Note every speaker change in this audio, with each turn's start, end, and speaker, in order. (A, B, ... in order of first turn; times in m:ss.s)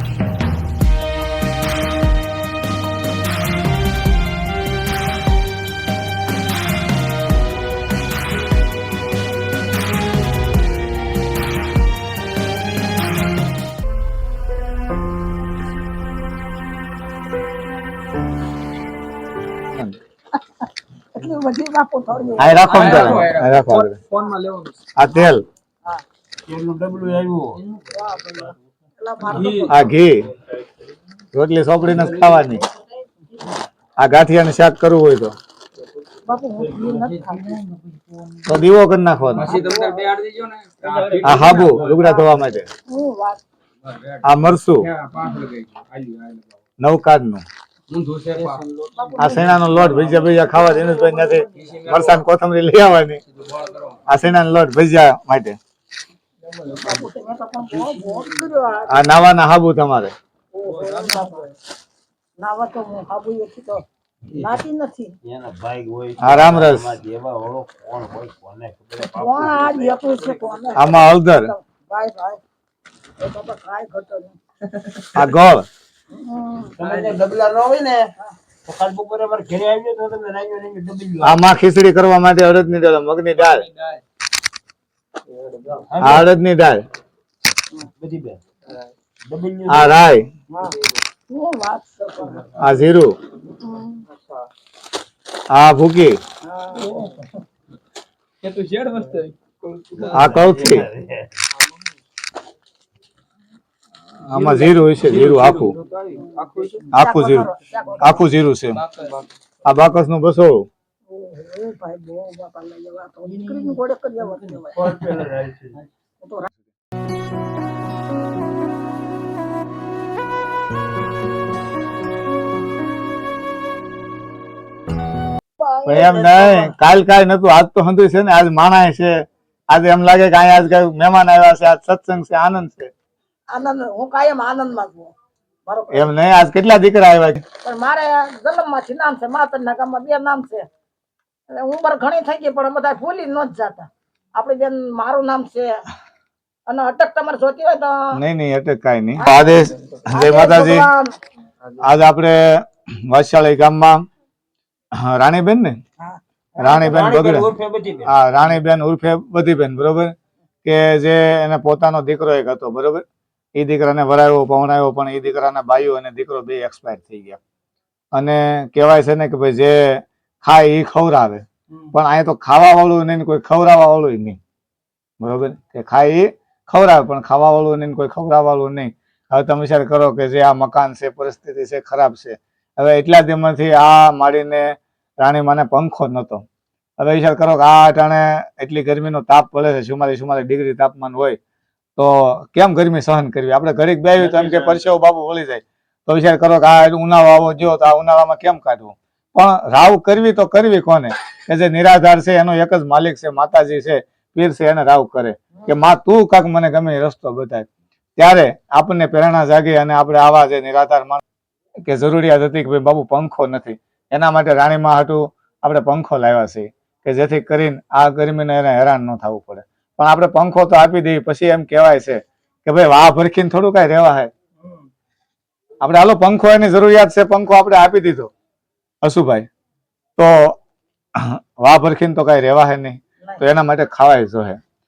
0:21.1-0:23.4 A
0:22.4-0:24.0 B
0:22.6-0:24.9 C
0:25.0-0:25.4 B
0:26.4-0:27.6 D
0:27.9-0:29.8 A
0:29.3-0:29.8 C
0:29.7-0:30.3 B
0:31.3-0:32.6 B
0:31.9-0:32.4 D
0:34.0-0:35.3 B
0:36.2-0:37.6 A
0:36.8-0:38.4 C
0:38.4-0:39.6 B
0:39.3-0:42.3 C
0:39.4-0:40.1 A
0:40.8-0:41.7 D
0:41.2-0:42.7 B
0:42.9-0:43.4 A
0:43.8-0:46.5 C
0:44.2-0:44.9 B
0:46.8-0:47.4 B
0:47.9-0:50.3 C
0:48.3-0:48.6 D
0:48.9-0:49.8 A
0:49.2-0:53.2 B
0:49.5-0:50.8 D
0:51.0-0:52.2 C
0:53.3-0:54.0 C
0:54.1-0:55.6 B
0:56.6-0:57.0 C
0:56.7-0:59.0 A
0:58.9-1:00.1 B
1:00.5-1:01.5 A
1:00.7-1:01.4 C
1:02.4-1:05.1 A
1:05.2-1:10.4 D
1:06.2-1:06.9 B
1:09.0-1:12.4 A
1:10.8-1:11.5 B
1:13.2-1:14.4 A
1:14.8-1:15.1 C
1:15.1-1:15.6 B
1:16.1-1:16.8 A
1:16.8-1:18.1 D
1:16.8-1:17.1 C
1:18.6-1:21.4 D
1:21.2-1:23.6 B
1:23.4-1:24.0 C
1:25.4-1:25.7 C
1:25.7-1:26.3 D
1:26.0-1:26.8 B
1:28.0-1:28.4 D
1:29.2-1:30.1 D
1:29.7-1:30.3 B
1:31.3-1:32.7 A
1:32.6-1:33.2 B
1:33.5-1:34.0 A
1:35.5-1:36.2 B
1:36.5-1:37.1 A
1:36.8-1:37.1 C
1:38.4-1:40.3 C
1:40.0-1:41.3 D
1:40.1-1:40.9 B
1:44.2-1:45.7 B
1:44.4-1:46.9 C
1:46.9-1:48.2 A
1:46.9-1:48.8 B
1:48.7-1:49.3 C
1:49.6-1:50.7 B
1:51.1-1:54.8 A
1:54.7-1:55.8 D
1:56.2-1:56.5 A
2:05.6-2:06.7 A
2:05.8-2:09.1 B
2:09.7-2:12.9 B
2:13.5-2:15.1 A
2:15.6-2:16.1 A
2:15.9-2:17.4 B
2:17.6-2:20.6 A
2:21.5-2:25.8 A
2:26.7-2:28.2 A
2:28.1-2:30.9 B
2:30.1-2:31.1 A
2:31.8-2:34.0 B
2:35.0-2:35.8 B
2:36.1-2:37.0 A
2:36.6-2:37.5 B
2:36.6-2:38.1 D
2:38.0-2:40.1 B
2:40.6-2:43.0 B
2:43.6-2:47.4 B
2:48.1-2:54.4 B
2:55.2-3:06.4 B
3:07.0-3:11.4 B
3:12.0-3:31.2 B
3:14.2-3:14.8 D
3:31.8-3:44.3 B
3:45.8-3:48.3 B
3:49.0-3:49.5 B
3:50.2-3:50.6 B
3:51.2-3:54.6 B